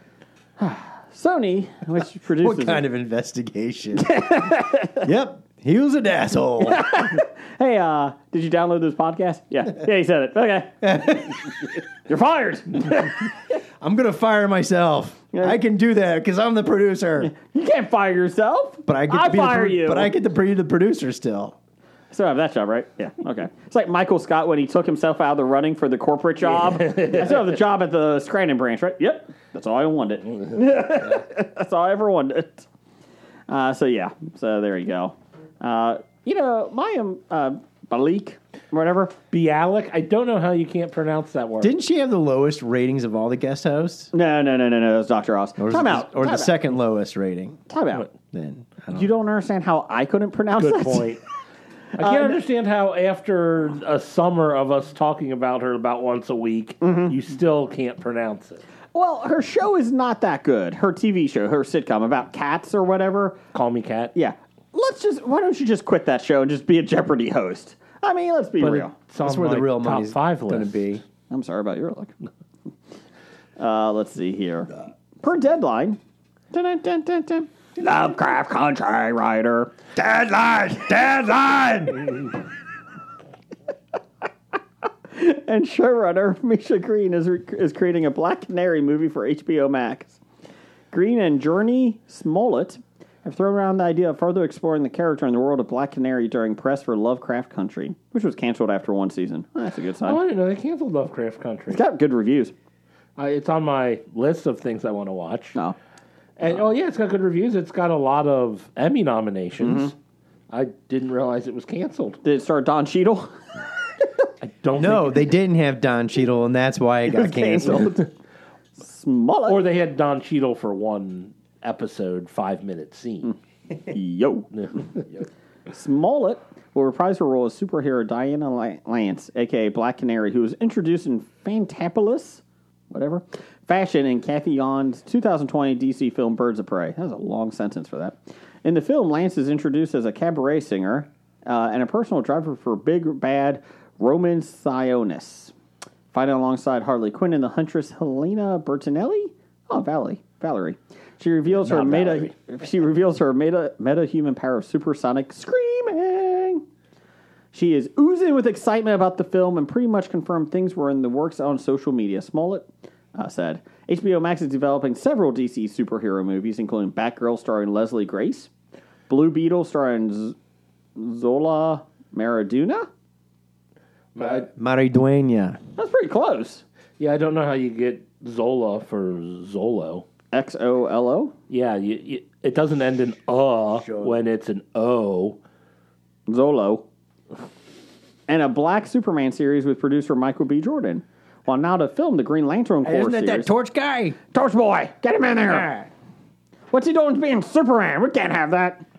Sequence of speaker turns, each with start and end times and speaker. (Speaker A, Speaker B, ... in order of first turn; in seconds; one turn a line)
Speaker A: 0.6-2.8
Speaker B: 2.3-4.1
Speaker A: 4.0-5.1
Speaker B: 5.0-6.9
Speaker A: 6.6-11.1
Speaker B: 10.8-11.4
Speaker A: 12.1-13.1
Speaker B: 13.8-17.3
Speaker A: 17.2-20.1
Speaker B: 18.9-21.6
Speaker A: 22.1-32.6
Speaker C: 26.7-27.4
Speaker A: 33.5-39.1
Speaker C: 39.3-41.7
Speaker B: 41.6-44.1
Speaker A: 44.1-46.5
Speaker B: 45.6-47.6
Speaker A: 47.7-48.1
Speaker B: 48.3-49.1
Speaker A: 48.9-51.1
Speaker C: 50.6-51.2
Speaker C: 52.0-58.6
Speaker A: 52.0-52.4
Speaker A: 56.8-57.1
Speaker A: 58.9-63.4
Speaker C: 63.5-64.1
Speaker A: 64.1-68.9
Speaker C: 68.6-70.8
Speaker B: 69.2-71.0
Speaker A: 71.3-72.1
Speaker A: 73.6-76.0
Speaker A: 76.5-79.7
Speaker B: 80.0-82.0
Speaker A: 85.1-90.2
Speaker A: 90.9-100.2
Speaker C: 100.0-101.8
Speaker A: 101.7-102.5
Speaker C: 103.2-105.6
Speaker C: 106.4-109.9
Speaker A: 109.6-109.9
Speaker C: 110.5-112.2
Speaker A: 112.2-113.3
Speaker C: 114.4-115.3
Speaker B: 114.8-118.0
Speaker A: 117.1-118.1
Speaker A: 118.8-119.6
Speaker C: 119.5-123.3
Speaker A: 123.8-124.5
Speaker A: 125.7-145.5
Speaker A: 146.1-156.6
Speaker C: 151.6-152.3
Speaker A: 157.5-168.5
Speaker A: 169.1-170.3
Speaker A: 170.9-172.9
Speaker B: 174.2-175.6
Speaker A: 175.8-176.6
Speaker C: 177.0-180.0
Speaker A: 180.3-181.3
Speaker C: 181.5-185.4
Speaker B: 183.8-184.2
Speaker A: 186.3-186.8
Speaker A: 188.3-193.5
Speaker B: 192.8-194.2
Speaker A: 194.3-195.7
Speaker B: 195.4-195.9
Speaker A: 196.7-198.8